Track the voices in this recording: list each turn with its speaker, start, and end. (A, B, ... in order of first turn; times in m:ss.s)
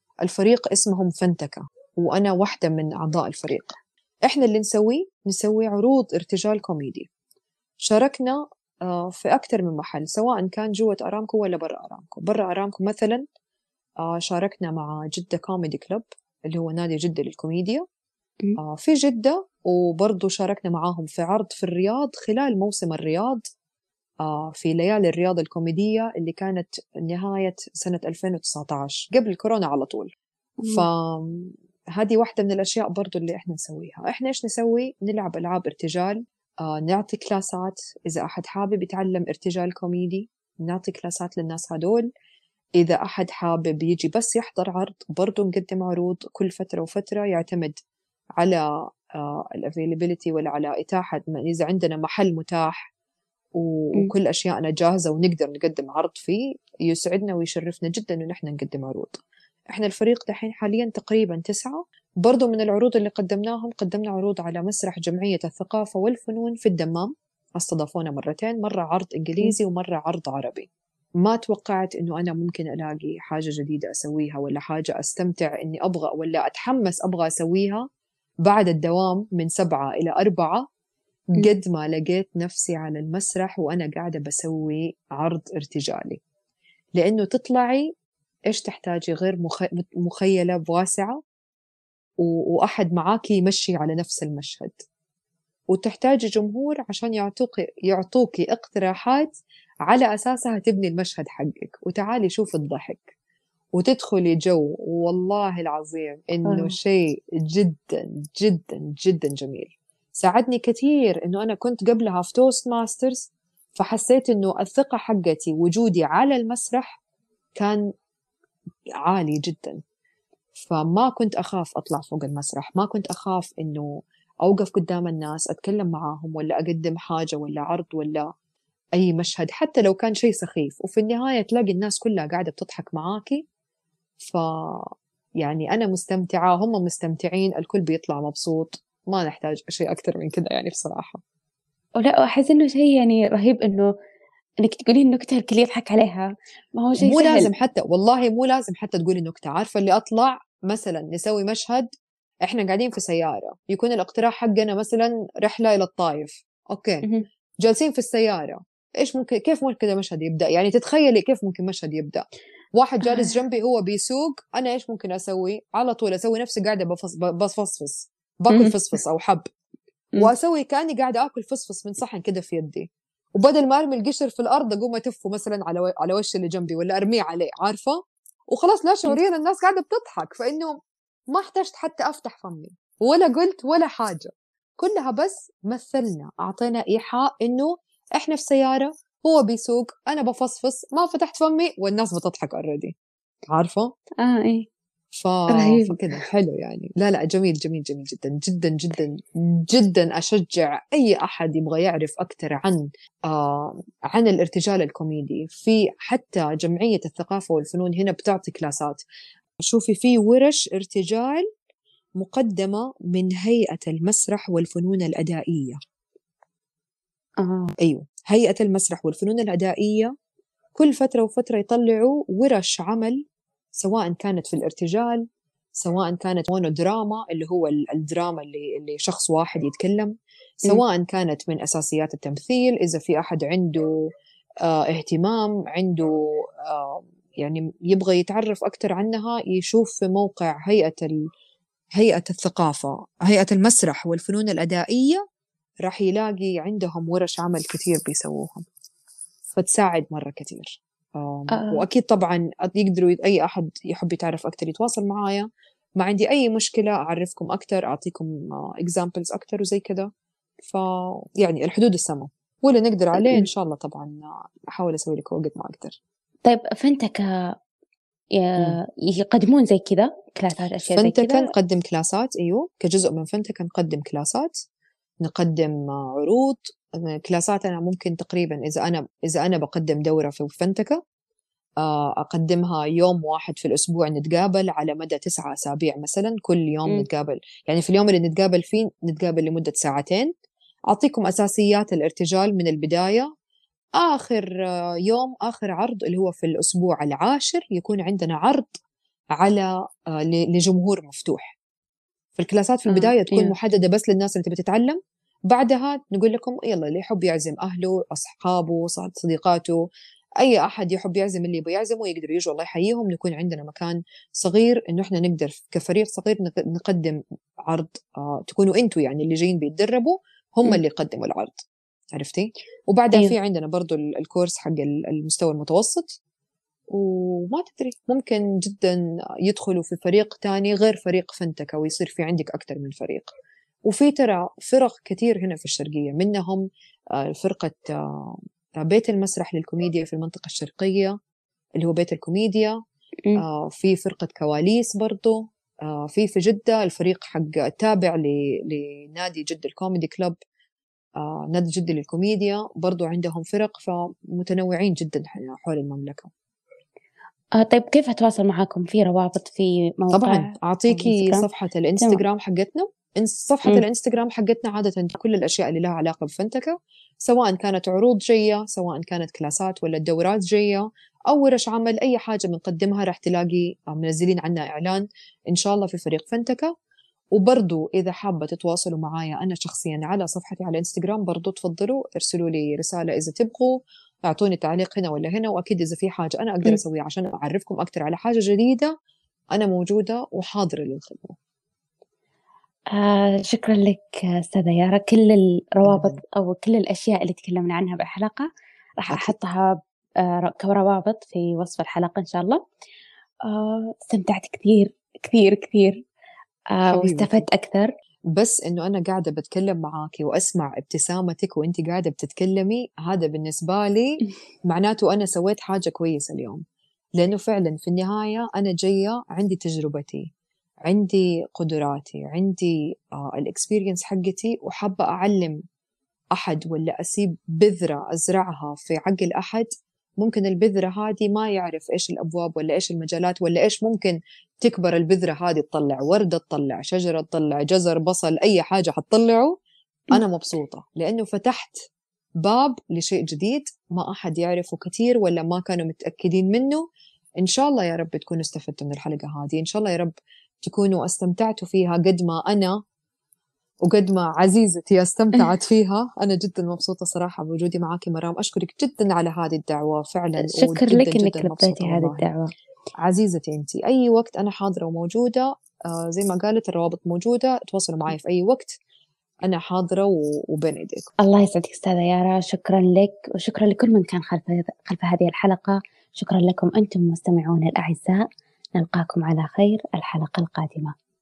0:00.2-0:07.1 A
0:07.8-0:13.2 A
0:14.0-0:17.8 A
0:18.6-0:23.4 A
0:24.2-0:30.1 A
0:30.6-0:30.9 B
0:30.7-0:42.1 A
0:42.8-0:47.8 A
0:48.4-0:52.9 A
0:53.6-1:10.7 A
1:11.2-1:17.9 A
1:18.4-1:20.7 A
1:21.3-1:26.2 A
1:27.0-1:27.9 A
1:28.5-1:31.2 A
1:32.2-1:34.8 A
1:35.7-1:39.3 A
1:39.9-1:43.1 A
1:43.8-1:57.0 A
1:46.4-1:46.8 B
1:57.6-1:57.9 A
1:59.0-1:59.8 A
2:00.6-2:08.3 A
2:09.0-2:13.4 A
2:14.2-2:21.2 A
2:22.0-2:23.9 B
2:24.6-2:27.5 B
2:27.0-2:31.9 A
2:32.4-2:37.1 A
2:37.6-2:42.2 A
2:42.8-2:49.5 A
2:43.1-2:43.3 B
2:48.5-2:48.8 B
2:50.2-2:58.0 A
2:58.5-3:00.8 A
3:01.3-3:13.0 A
3:13.5-3:13.9 A
3:14.2-3:14.7 B
3:15.2-3:29.0 A
3:15.5-3:16.0 B
3:29.6-3:31.5 A
3:32.2-3:35.8 A
3:37.4-3:37.7 B
3:37.8-3:40.1 A
3:40.8-3:43.2 A
3:43.8-3:45.2 A
3:45.8-3:53.9 A
3:54.6-4:01.2 A
4:02.0-4:05.2 A
4:05.8-4:08.6 A
4:09.5-4:20.1 A
4:11.5-4:11.8 B
4:20.6-4:26.0 A
4:23.2-4:23.5 B
4:26.5-4:27.5 B
4:28.3-4:31.5 B
4:30.9-4:34.5 A
4:35.2-4:41.0 A
4:41.8-4:50.3 A
4:50.9-4:53.3 A
4:54.0-4:58.7 A
4:59.4-5:01.6 A
5:02.4-5:09.8 A
5:02.9-5:03.5 B
5:10.4-5:26.2 A
5:26.9-5:33.3 A
5:33.9-5:41.2 A
5:41.8-5:42.8 A
5:43.4-5:50.4 A
5:51.2-5:56.3 A
5:57.6-6:01.5 B
6:00.1-6:16.7 A
6:17.3-6:28.9 A
6:29.5-6:31.4 A
6:32.9-6:42.6 B
6:35.8-6:36.2 A
6:43.4-6:46.0 B
6:46.7-6:47.9 B
6:46.9-6:47.4 A
6:48.4-6:56.6 A
6:57.2-7:00.3 A
7:00.8-7:05.6 A
7:06.3-7:19.6 A
7:20.1-7:21.8 A
7:22.4-7:26.8 A
7:27.4-7:32.8 A
7:33.8-7:42.3 A
7:40.4-7:42.5 B
7:43.0-7:48.8 A
7:49.4-7:51.1 A
7:51.2-8:00.9 B